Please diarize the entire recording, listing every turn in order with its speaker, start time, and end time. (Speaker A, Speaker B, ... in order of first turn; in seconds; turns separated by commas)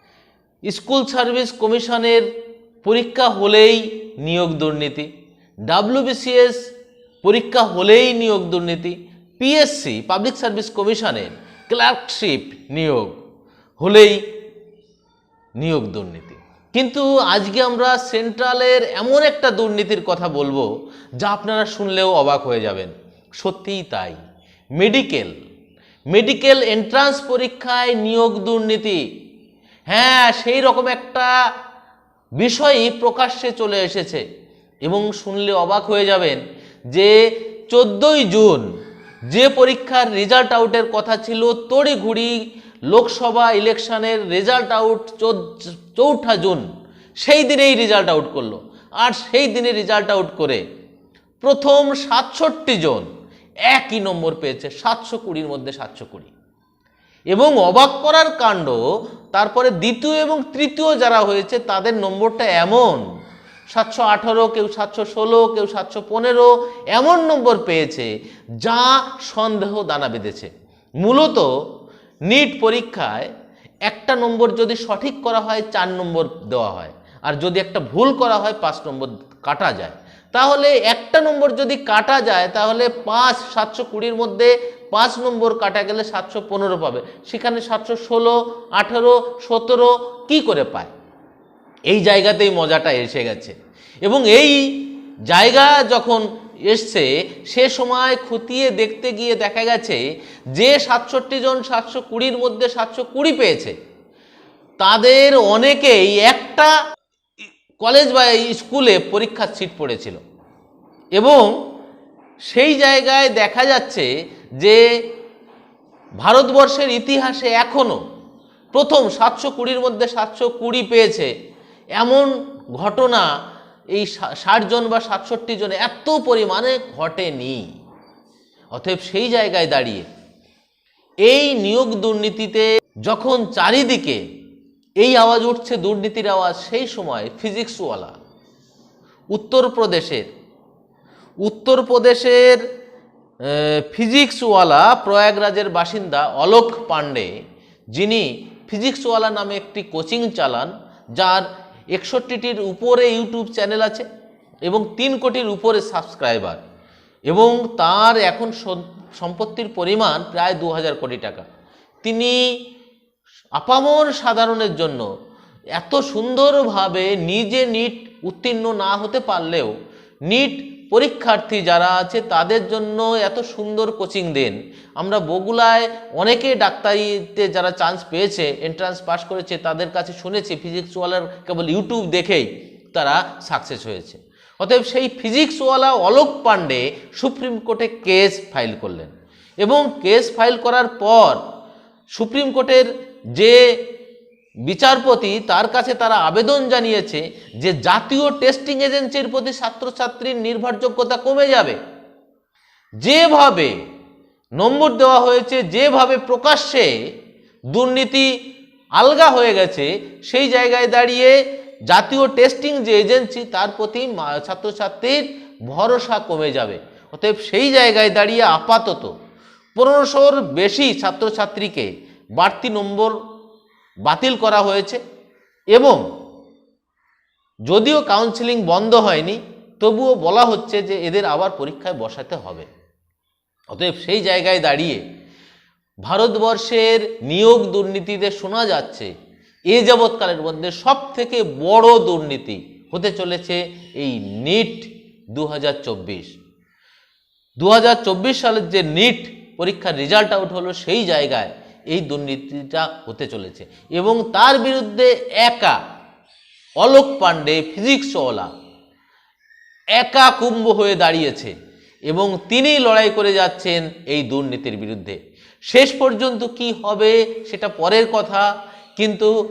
Speaker A: 0.7-2.2, Speaker A: 2.9-5.1, Speaker A: 5.7-6.6, Speaker A: 7.2-13.2, Speaker A: 13.8-14.2, Speaker A: 15.6-20.7, Speaker A: 21.2-24.2, Speaker A: 24.8-25.4, Speaker A: 26.1-29.0, Speaker A: 29.9-31.3, Speaker A: 32.4-34.2, Speaker A: 34.9-36.4, Speaker A: 37.7-38.7, Speaker A: 39.3-42.4, Speaker A: 42.9-46.7, Speaker A: 47.2-50.6, Speaker A: 51.4-53.1, Speaker A: 53.7-56.3, Speaker A: 57.3-58.8, Speaker A: 59.3-63.0, Speaker A: 63.7-68.1, Speaker A: 68.6-70.5, Speaker A: 71.0-71.5, Speaker A: 72.3-73.3, Speaker A: 73.9-90.9, Speaker A: 91.9-100.0, Speaker A: 100.5-103.8, Speaker A: 104.8-106.8, Speaker A: 107.8-110.2, Speaker A: 111.2-111.5, Speaker A: 112.5-114.1, Speaker A: 116.2-118.0, Speaker A: 118.7-121.3, Speaker A: 122.0-123.3, Speaker A: 123.9-127.7, Speaker A: 128.8-130.1, Speaker A: 131.3-134.2, Speaker A: 135.0-138.2, Speaker A: 139.3-140.3, Speaker A: 141.4-142.6, Speaker A: 143.4-147.3, Speaker A: 147.9-154.1, Speaker A: 154.7-156.6, Speaker A: 157.3-161.4, Speaker A: 162.1-162.4, Speaker A: 163.6-165.1, Speaker A: 165.8-169.7, Speaker A: 170.3-191.4, Speaker A: 192.2-193.6, Speaker A: 194.7-201.8, Speaker A: 203.0-203.7, Speaker A: 204.6-206.9, Speaker A: 207.7-208.3, Speaker A: 209.0-211.4, Speaker A: 211.9-219.1, Speaker A: 219.8-223.2, Speaker A: 224.1-225.0, Speaker A: 225.7-226.0, Speaker A: 227.7-232.7, Speaker A: 233.7-235.0, Speaker A: 236.1-239.1, Speaker A: 239.7-246.3, Speaker A: 247.6-255.8, Speaker A: 256.8-258.5, Speaker A: 260.0-261.5, Speaker A: 262.1-268.5, Speaker A: 269.0-269.3